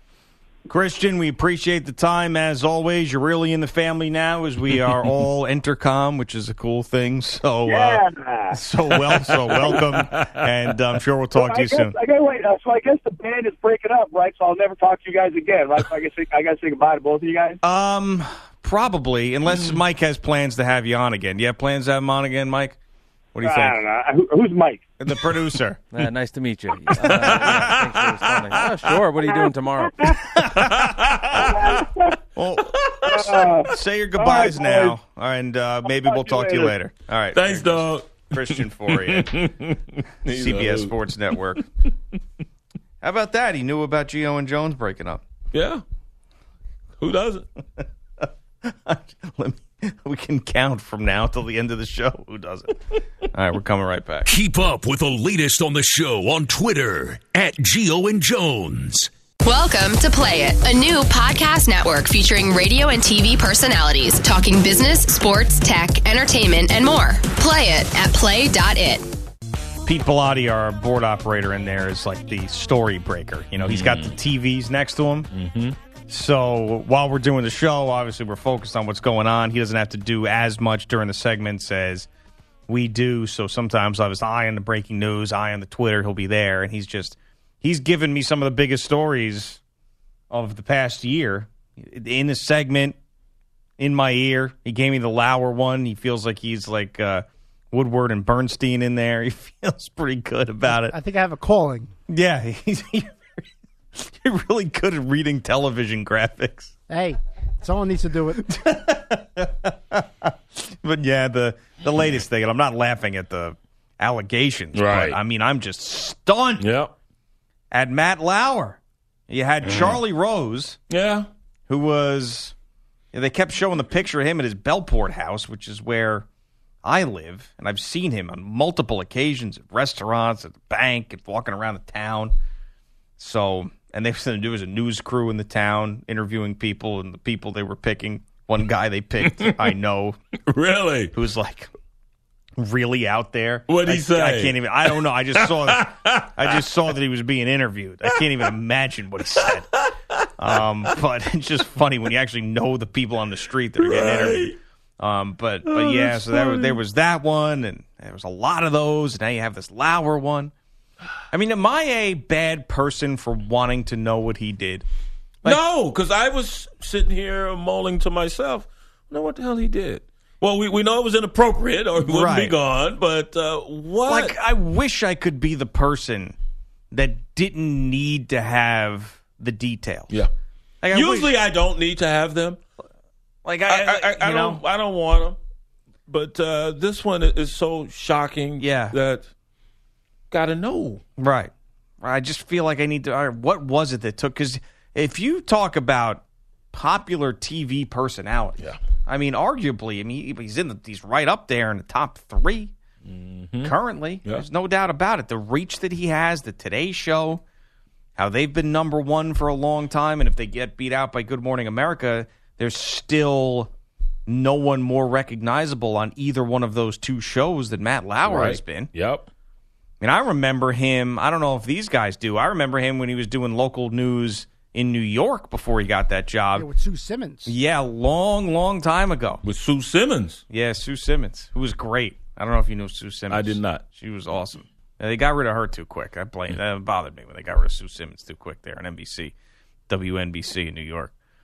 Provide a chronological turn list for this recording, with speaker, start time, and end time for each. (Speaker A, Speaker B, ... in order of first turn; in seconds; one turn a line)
Speaker A: 0.7-11.9
Speaker B: 7.7-8.6
Speaker C: 9.3-10.4
Speaker B: 11.3-17.6
Speaker A: 17.6-22.8
Speaker C: 19.5-19.8
Speaker A: 23.3-23.8
Speaker B: 23.4-24.8
Speaker A: 25.0-26.0
Speaker D: 25.9-30.0
Speaker C: 27.0-29.0
Speaker B: 29.2-30.2
Speaker A: 30.3-31.5
Speaker C: 30.4-31.5
Speaker B: 31.4-32.1
Speaker A: 32.4-39.5
Speaker B: 33.0-34.9
Speaker B: 35.9-36.7
Speaker C: 37.3-41.4
Speaker A: 40.3-41.6
Speaker A: 43.0-45.2
Speaker C: 45.5-45.8
Speaker C: 47.0-47.4
Speaker A: 48.6-54.3
Speaker E: 54.3-59.1
Speaker F: 59.4-69.0
Speaker A: 69.8-75.3
Speaker C: 73.6-74.2
Speaker C: 75.3-75.8
Speaker A: 76.1-82.1
Speaker A: 82.7-89.6
Speaker A: 90.3-93.0
Speaker A: 93.8-101.0
Speaker G: 100.7-101.9
Speaker A: 102.1-103.4
Speaker A: 104.0-106.7
Speaker G: 106.9-108.4
Speaker A: 108.4-116.7
Speaker C: 114.7-115.2
Speaker C: 116.6-116.9
Speaker A: 117.7-120.8
Speaker C: 119.6-120.0
Speaker C: 120.9-121.3
Speaker A: 121.7-122.5
Speaker A: 123.1-126.2
Speaker A: 126.8-132.3
Speaker A: 133.2-140.2
Speaker C: 139.2-139.6
Speaker C: 140.5-141.1
Speaker A: 141.1-141.7
Speaker A: 142.6-149.7
Speaker C: 143.7-144.8
Speaker C: 145.4-146.5
Speaker C: 149.4-149.9
Speaker A: 150.4-160.5
Speaker C: 153.8-154.6
Speaker C: 155.6-156.8
Speaker A: 161.3-164.8
Speaker C: 165.4-174.3
Speaker A: 172.0-172.6
Speaker A: 174.1-176.3
Speaker A: 176.9-180.2
Speaker A: 180.8-181.3
Speaker C: 180.9-182.6
Speaker A: 183.4-184.6
Speaker C: 183.7-185.3
Speaker C: 186.1-189.2
Speaker A: 188.6-189.0
Speaker C: 190.3-191.0
Speaker A: 191.2-202.7
Speaker C: 203.1-203.7
Speaker A: 203.6-207.4
Speaker A: 208.2-213.7
Speaker A: 214.3-218.9
Speaker C: 218.2-219.3
Speaker A: 220.0-226.7
Speaker G: 226.5-227.5
Speaker A: 227.4-229.4
Speaker C: 229.4-230.4
Speaker A: 230.5-239.3
Speaker C: 233.3-233.8
Speaker A: 239.9-241.1